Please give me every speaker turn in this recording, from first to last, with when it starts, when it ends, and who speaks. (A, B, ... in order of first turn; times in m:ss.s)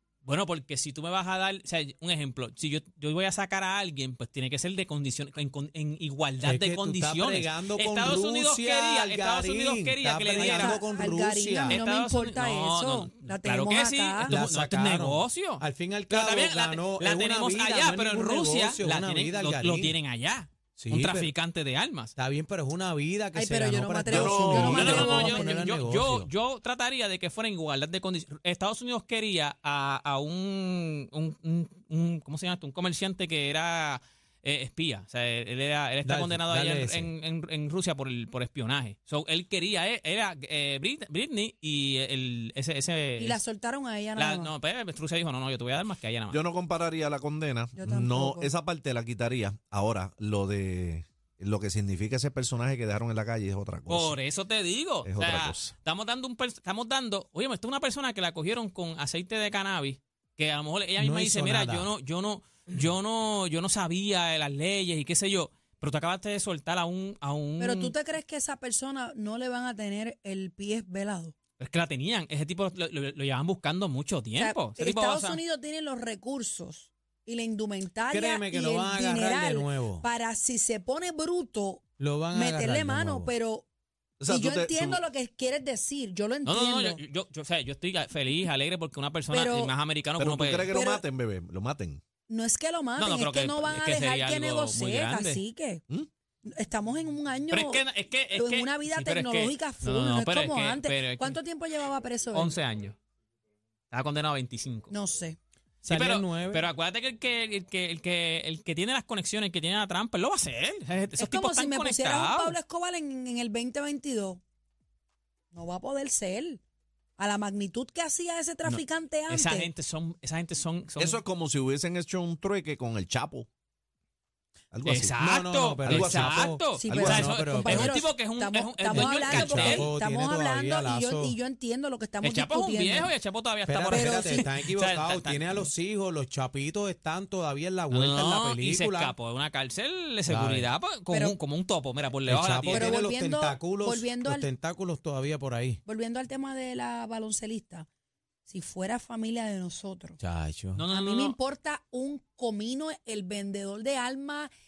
0:00.2-0:10.8 A
0:06.4-0:11.8 B
0:10.3-0:14.4 C
0:11.6-0:22.1 A
0:14.3-0:20.0 B
0:20.8-0:21.3 B
0:22.2-0:26.3 B
0:23.4-0:25.6 C
0:24.1-0:25.1 D
0:24.7-0:43.4 A
0:36.0-0:37.1 B
0:43.2-0:44.5 C
0:44.2-0:46.4 A
0:46.3-0:54.2 D
0:47.8-0:48.5 C
0:53.9-1:08.0 A
0:55.0-0:55.7 D
1:01.0-1:01.9 B
1:07.6-1:11.3 C
1:11.6-1:15.4 A
1:14.4-1:23.7 C
1:18.1-1:20.0 B
1:22.0-1:23.3 B
1:24.2-1:25.0 D
1:24.3-1:27.0 C
1:26.4-1:30.7 A
1:29.3-1:29.7 C
1:30.2-1:32.0 D
1:30.7-1:31.0 C
1:32.3-1:35.8 C
1:33.0-1:35.4 A
1:36.5-1:42.6 C
1:37.5-1:41.4 A
1:42.3-1:43.0 A
1:43.9-1:44.9 A
1:44.9-1:45.4 C
1:45.8-1:46.7 B
1:45.9-1:52.6 A
1:51.2-1:54.4 C
1:55.5-1:56.6 C
1:57.2-1:59.7 C
1:58.6-2:01.2 A
2:01.0-2:03.5 D
2:04.7-2:05.1 D
2:04.8-2:09.9 A
2:05.2-2:08.0 B
2:05.8-2:07.3 D
2:06.8-2:13.1 C
2:08.9-2:11.4 B
2:12.2-2:15.7 A
2:13.7-2:19.2 B
2:13.9-2:14.5 C
2:17.9-2:23.0 A
2:20.3-2:20.7 B
2:21.1-2:21.4 C
2:22.3-2:25.8 B
2:22.7-2:24.5 C
2:25.8-2:27.9 C
2:28.5-2:30.2 C
2:30.2-2:30.8 B
2:30.8-2:31.4 A
2:30.9-2:34.5 C